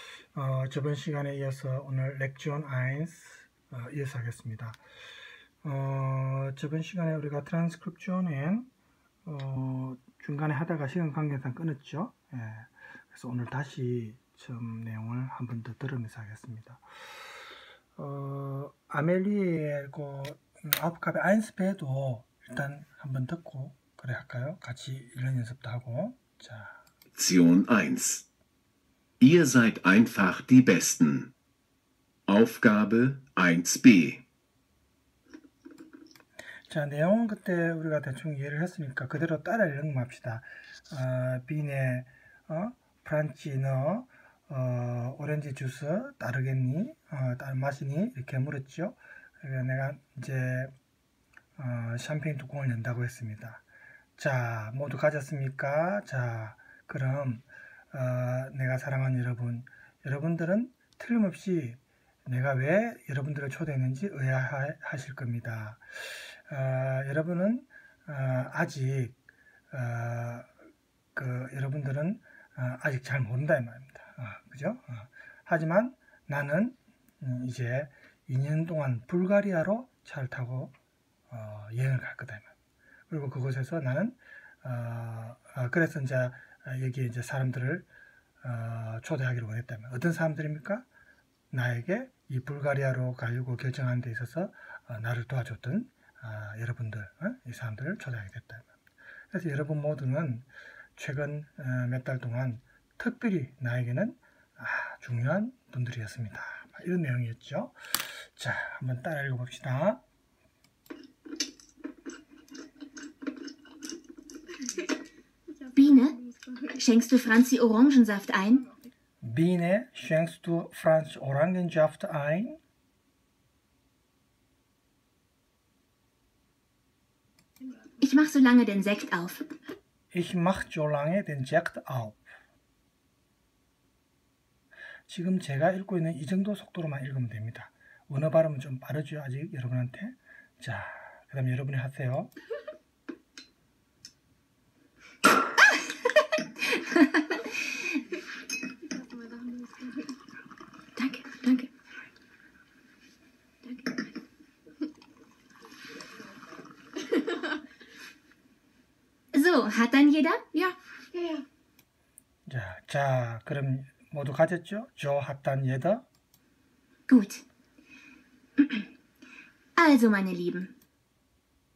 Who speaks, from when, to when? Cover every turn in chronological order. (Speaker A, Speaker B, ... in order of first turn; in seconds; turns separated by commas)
Speaker A: 0.3-4.8, Speaker A: 5.6-8.7, Speaker A: 9.2-16.8, Speaker A: 18.0-26.8, Speaker B: 27.1-28.3, Speaker B: 29.2-31.3, Speaker B: 32.3-34.2, Speaker A: 36.7-50.7, Speaker A: 51.6-53.6, Speaker A: 54.2-69.1, Speaker A: 69.7-70.5, Speaker A: 71.1-80.7, Speaker A: 81.3-82.5, Speaker A: 83.1-87.9, Speaker A: 88.4-90.8, Speaker A: 91.5-98.7, Speaker A: 99.3-110.0, Speaker C: 115.7-118.7, Speaker A: 119.2-122.6, Speaker C: 128.0-129.4, Speaker A: 130.1-132.2, Speaker A: 135.1-142.3, Speaker C: 146.7-147.2, Speaker C: 151.0-151.7, Speaker C: 159.3-160.7, Speaker A: 162.4-166.0, Speaker C: 167.1-167.4, Speaker C: 168.6-168.8, Speaker C: 169.8-170.7